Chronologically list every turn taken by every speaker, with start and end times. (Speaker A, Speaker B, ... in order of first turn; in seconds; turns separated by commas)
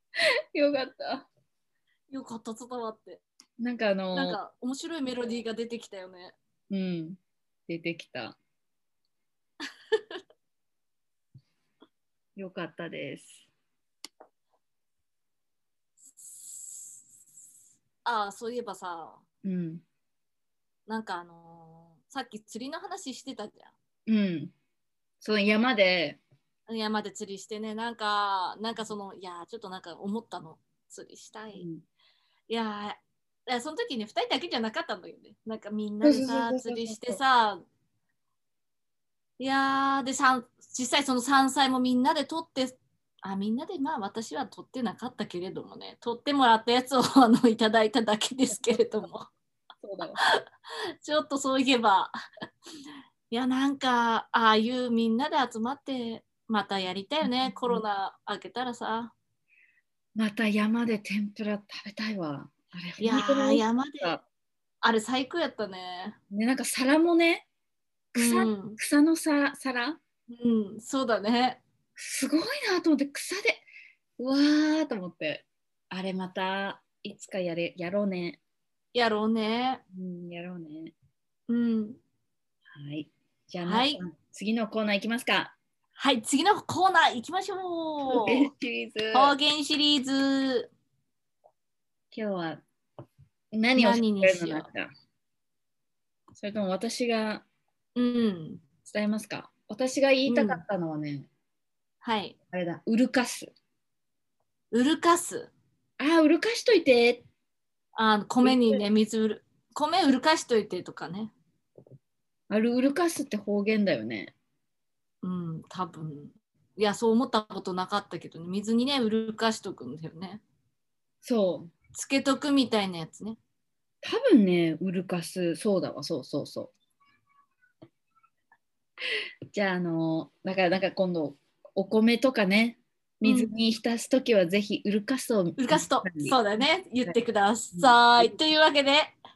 Speaker A: 0.5-1.3, Speaker B: 2.1-3.2, Speaker A: 3.6-4.4, Speaker B: 4.1-6.4, Speaker A: 6.7-8.4, Speaker A: 12.4-13.5, Speaker B: 16.1-17.1, Speaker B: 18.1-19.2, Speaker A: 19.4-19.8, Speaker B: 20.9-23.7, Speaker A: 24.1-24.5, Speaker A: 25.2-26.2, Speaker B: 26.7-31.7, Speaker A: 31.5-31.8, Speaker B: 32.5-37.6, Speaker A: 36.0-37.2, Speaker B: 39.4-49.3, Speaker A: 48.5-48.9, Speaker A: 49.8-50.2, Speaker B: 51.0-52.1, Speaker B: 53.3-59.1, Speaker A: 57.2-57.8, Speaker A: 60.2-64.2, Speaker B: 63.0-64.2, Speaker B: 64.8-66.2, Speaker A: 66.3-67.5, Speaker A: 68.1-70.0, Speaker B: 68.2-68.8, Speaker B: 70.3-71.6, Speaker A: 72.0-73.7, Speaker A: 74.2-78.4, Speaker B: 78.9-79.8, Speaker A: 79.9-80.9, Speaker B: 81.5-82.0, Speaker A: 82.7-85.5, Speaker B: 83.6-84.0, Speaker B: 86.0-88.5, Speaker A: 88.0-89.3, Speaker B: 89.1-90.7, Speaker A: 92.1-92.6, Speaker A: 93.5-94.9, Speaker B: 93.8-94.7, Speaker A: 96.3-97.5, Speaker B: 98.0-98.6, Speaker A: 98.8-101.3, Speaker B: 100.3-100.6, Speaker B: 102.0-102.4, Speaker A: 102.5-103.5, Speaker B: 104.7-105.5, Speaker A: 106.0-107.3, Speaker B: 108.0-111.3, Speaker A: 108.4-108.8, Speaker A: 112.5-114.3, Speaker B: 115.2-120.4, Speaker A: 121.2-121.7, Speaker B: 121.9-123.4, Speaker A: 124.0-126.7, Speaker A: 129.5-136.4, Speaker B: 133.2-133.5, Speaker B: 135.6-139.2, Speaker A: 137.7-138.4